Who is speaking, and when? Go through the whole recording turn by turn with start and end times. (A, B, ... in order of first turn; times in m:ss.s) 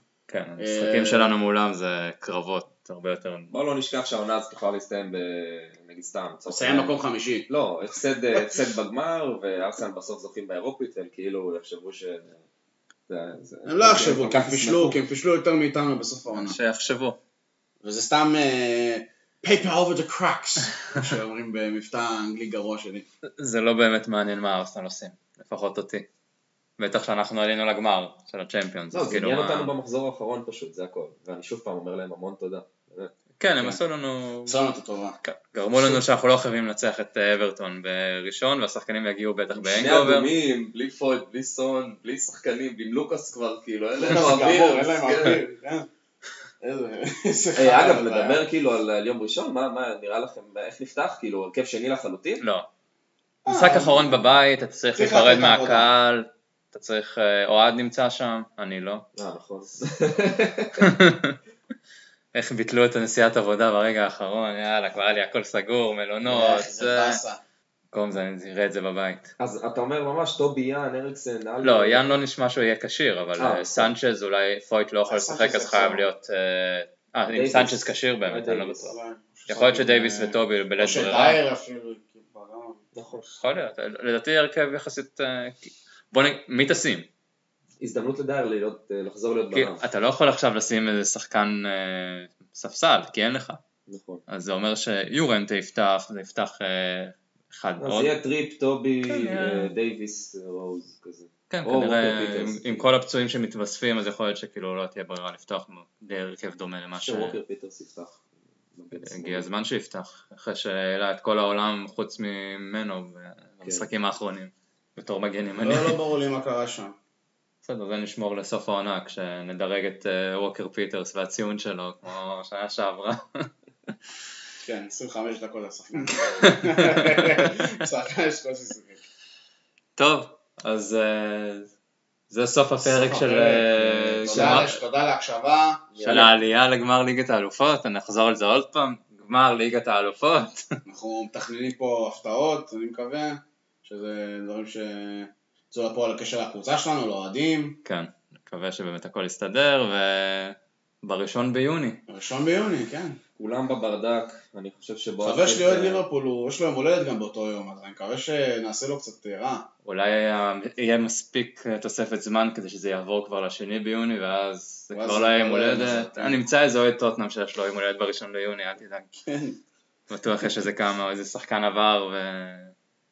0:00.3-0:03.5 A
0:00.6-0:01.3 B
0:03.5-0:12.4 C
0:06.5-0:07.5 B
0:13.1-0:15.0 C
0:13.7-0:16.6 B
0:16.3-0:17.2 A
0:17.8-0:23.1 B
0:23.3-0:26.1 A
0:26.8-0:29.7 A
0:28.9-0:33.1 C
0:33.4-0:34.6 A
0:34.5-0:35.2 B
0:35.2-0:40.3 A
0:39.5-0:45.4 C
0:44.0-0:45.9 B
0:46.6-0:48.4 B
0:47.6-0:52.4 C
0:52.4-0:52.7 A
0:53.4-0:54.3 B
0:53.5-0:59.1 A
0:55.0-0:55.9 B
0:59.2-1:00.8 C
1:00.8-1:01.4 A
1:02.3-1:07.2 A
1:06.2-1:07.4 B
1:07.9-1:09.3 A
1:09.4-1:12.2 C
1:11.6-1:19.0 A
1:13.4-1:13.9 C
1:15.1-1:16.1 B
1:17.3-1:19.0 C
1:18.9-1:22.8 B
1:19.5-1:21.4 A
1:23.0-1:23.3 C
1:23.3-1:27.1 A
1:27.8-1:29.8 C
1:29.5-1:33.6 A
1:33.9-1:34.2 C
1:34.3-1:38.1 A
1:37.8-1:42.8 C
1:39.1-1:39.7 A
1:41.5-1:47.4 A
1:47.0-1:48.2 C
1:48.7-1:49.5 C
1:49.0-1:56.0 A
1:55.6-1:57.0 B
1:57.6-2:03.5 A
2:04.6-2:09.0 B
2:06.4-2:07.5 A
2:10.0-2:11.7 A
2:12.3-2:14.8 A
2:12.8-2:16.3 B
2:14.2-2:14.7 C
2:16.0-2:16.3 C
2:16.0-2:20.8 A
2:20.9-2:27.8 B
2:27.8-2:32.0 A
2:32.1-2:33.2 B
2:33.4-2:36.0 C
2:35.2-2:39.7 B
2:39.8-2:49.1 A
2:44.9-2:46.4 B
2:49.1-2:49.6 B
2:50.1-2:52.7 A